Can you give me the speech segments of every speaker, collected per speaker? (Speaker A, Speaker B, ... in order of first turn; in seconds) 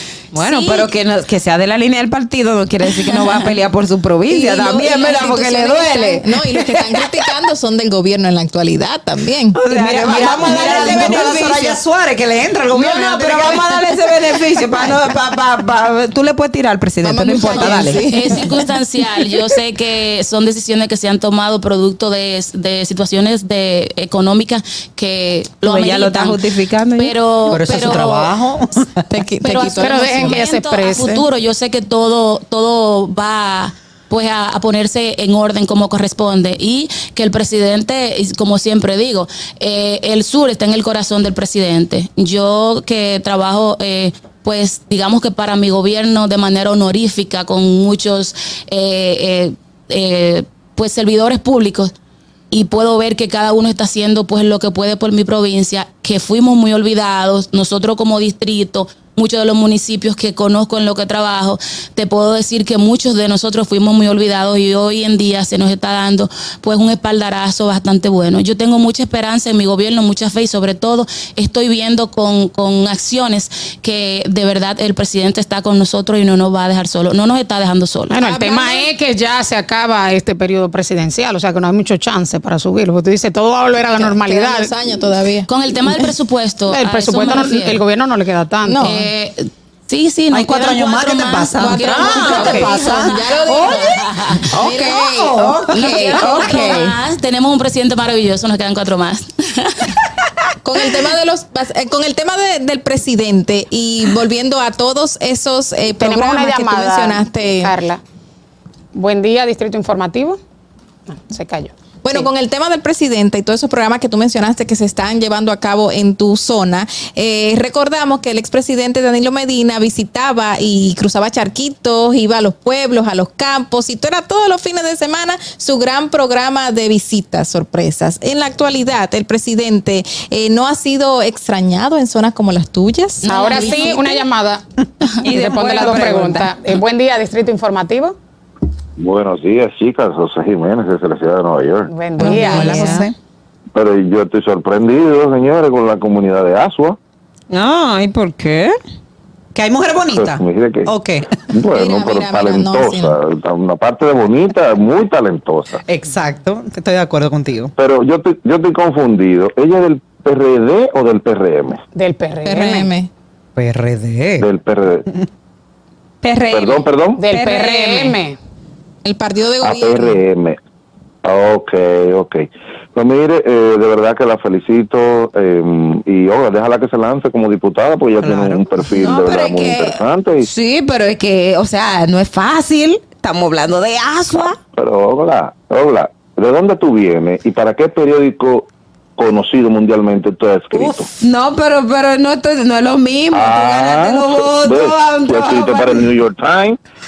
Speaker A: 0.3-0.8, 29.8-31.2, 78.1-84.7, 86.7-89.1, 94.6-95.3, 95.9-96.8, 106.0-108.0, 108.9-110.4, 111.1-112.3, 133.2-134.6, 135.2-138.2, 141.9-143.1, 161.9-162.9, 167.2-168.4
Speaker B: 0.3-6.2, 9.6-11.8, 12.7-18.1, 25.6-27.1, 30.9-31.2, 96.0-96.9, 135.2-136.5, 142.2-143.1, 147.5-148.7, 166.2-168.2, 178.9-184.6, 191.2-196.0
Speaker C: 4.3-11.5, 17.0-18.5, 29.1-30.4, 78.2-78.9, 84.0-86.1, 88.7-89.0, 91.5-96.2, 100.6-107.7, 112.0-134.2, 151.7-153.2, 162.4-163.1, 169.0-170.2
Speaker D: 9.7-13.6, 27.5-29.0, 90.3-93.2, 94.7-96.8, 142.3-143.1, 149.5-151.3, 155.9-157.7, 163.6-164.4, 178.2-178.6, 190.8-191.0
Speaker E: 18.0-26.4, 27.0-28.3, 29.4-51.9, 52.5-78.2, 85.5-87.8, 88.8-93.7, 95.7-99.9
Speaker F: 139.0-141.9, 143.7-147.0, 150.1-150.9, 151.5-155.8, 157.8-161.8, 164.4-165.1, 166.5-167.2, 169.6-170.6, 171.2-180.5, 184.7-191.1, 193.3-196.8